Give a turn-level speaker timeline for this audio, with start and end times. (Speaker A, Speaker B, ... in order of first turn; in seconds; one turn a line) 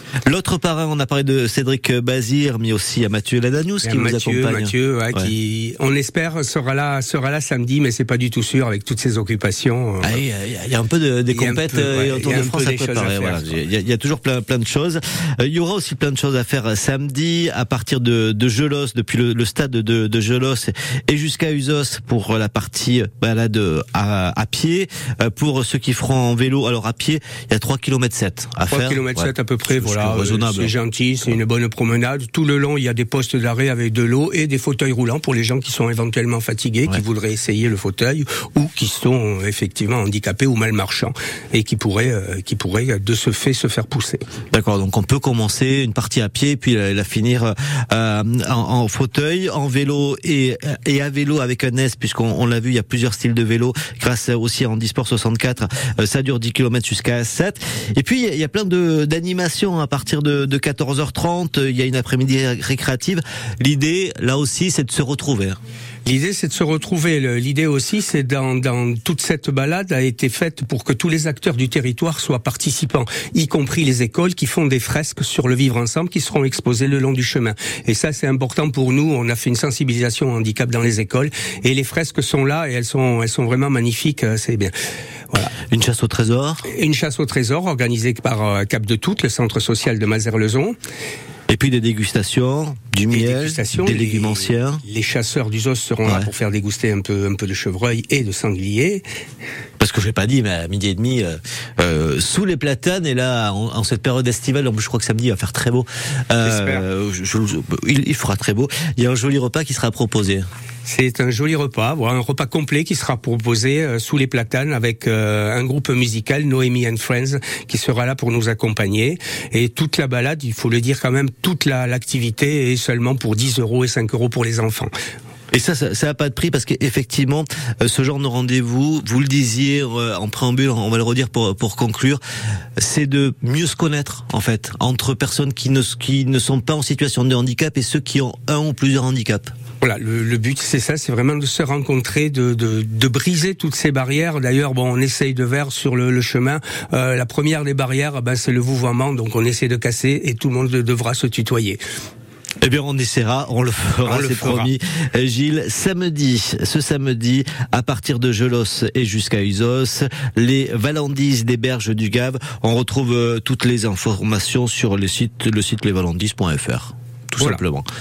Speaker A: 0.3-5.3
Speaker B: 3.8-10.1
Speaker A: 10.0-30.7
Speaker B: 11.4-13.5
Speaker B: 28.7-44.2
Speaker A: 44.5-65.6
Speaker B: 66.0-84.8
Speaker A: 85.4-86.7
Speaker B: 86.7-90.8
Speaker A: 91.5-94.8
Speaker B: 93.1-99.0
Speaker A: 96.0-96.3
Speaker A: 99.8-110.5
Speaker B: 106.5-106.8
Speaker B: 110.8-124.9
Speaker A: 125.5-132.2
Speaker A: 132.8-139.5
Speaker B: 139.8-151.8
Speaker A: 152.6-167.9
Speaker B: 154.1-154.7